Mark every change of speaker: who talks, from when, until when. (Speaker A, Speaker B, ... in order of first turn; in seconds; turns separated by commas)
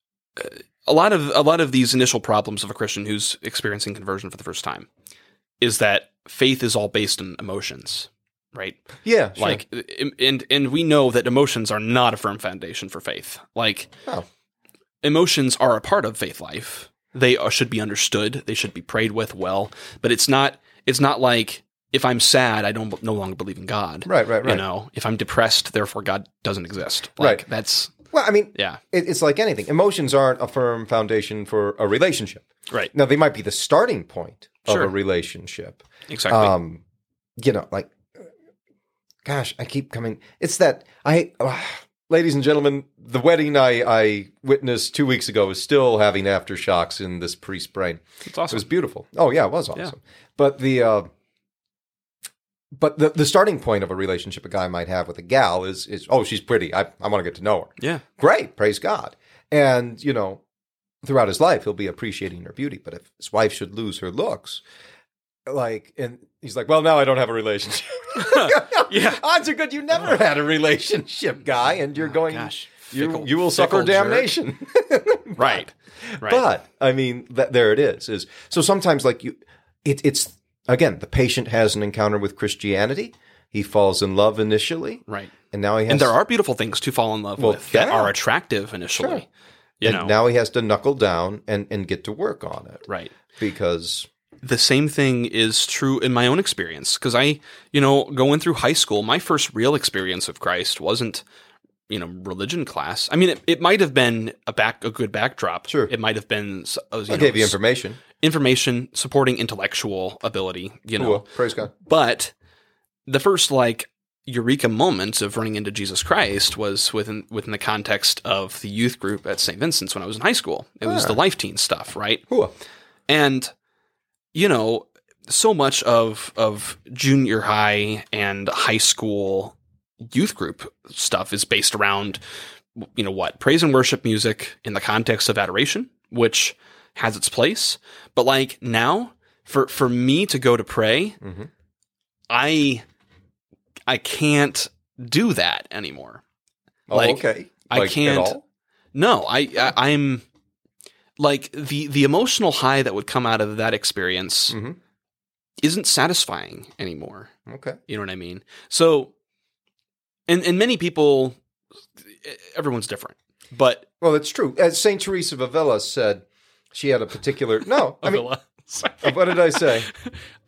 Speaker A: 0.4-4.9, Speaker A: 5.6-13.9, Speaker B: 9.0-9.6, Speaker A: 15.0-27.9, Speaker B: 24.1-24.6, Speaker B: 27.2-27.4, Speaker B: 28.1-36.8, Speaker A: 28.5-28.8, Speaker A: 36.1-36.5, Speaker B: 37.4-38.0, Speaker B: 39.2-51.1, Speaker A: 48.2-48.6, Speaker B: 52.7-60.4, Speaker B: 61.0-64.6, Speaker B: 65.5-86.1, Speaker A: 68.2-69.2, Speaker A: 72.0-74.3, Speaker A: 75.4-76.4, Speaker A: 85.1-85.3, Speaker A: 85.9-89.3, Speaker B: 87.4-88.1, Speaker A: 89.8-90.1, Speaker B: 89.8-92.8, Speaker A: 92.9-93.1, Speaker B: 93.4-94.1, Speaker A: 94.4-101.2, Speaker A: 101.9-107.6, Speaker B: 107.1-108.0, Speaker A: 108.1-112.3, Speaker B: 111.0-111.7, Speaker A: 113.1-122.2, Speaker B: 120.8-121.2, Speaker A: 123.1-123.5, Speaker A: 124.3-132.2, Speaker A: 132.8-141.2, Speaker B: 141.2-141.5, Speaker A: 142.3-142.8, Speaker A: 143.9-146.2, Speaker B: 146.9-148.4, Speaker A: 146.9-148.4, Speaker A: 148.9-150.2, Speaker A: 151.2-154.6, Speaker B: 154.5-154.8, Speaker A: 155.6-157.3, Speaker B: 157.5-157.8, Speaker A: 157.9-159.1, Speaker A: 160.3-161.4, Speaker A: 162.1-163.9, Speaker B: 164.0-168.3, Speaker A: 167.9-170.2, Speaker B: 169.0-169.9